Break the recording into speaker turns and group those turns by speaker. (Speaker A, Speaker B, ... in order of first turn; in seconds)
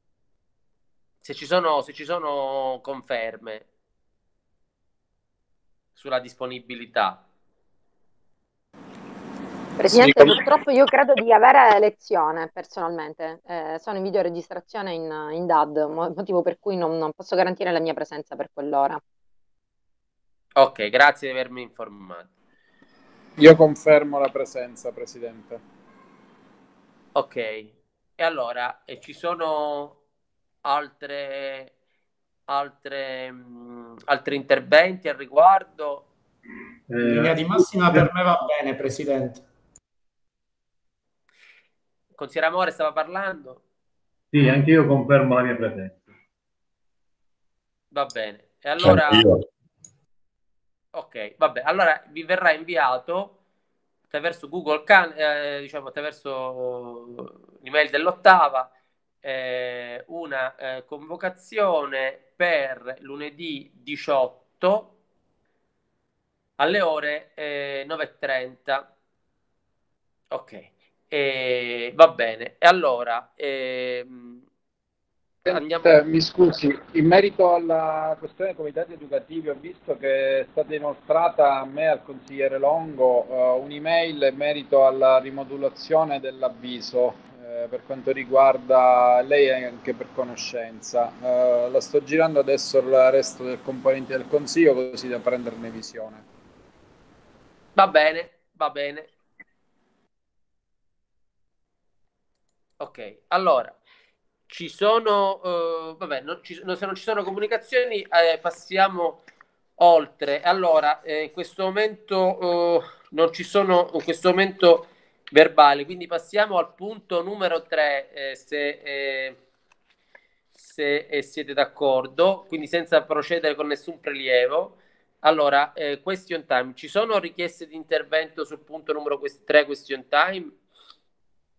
Speaker A: 1.2-3.6, 6.0-7.2, 9.9-10.4, 20.6-22.3, 27.1-30.0, 30.6-31.7, 32.5-36.1, 42.1-43.6, 47.9-49.2, 50.9-53.3, 54.1-58.7, 59.2-64.9, 66.6-68.9, 70.3-74.4, 75.5-76.0, 97.8-99.1, 102.8-103.8, 104.5-109.2, 109.8-119.4, 120.5-130.6
Speaker B: 9.8-19.0
Speaker C: 23.4-25.6, 75.4-96.2
Speaker D: 36.9-38.1, 44.3-46.0, 48.8-49.5
Speaker E: 37.0-39.4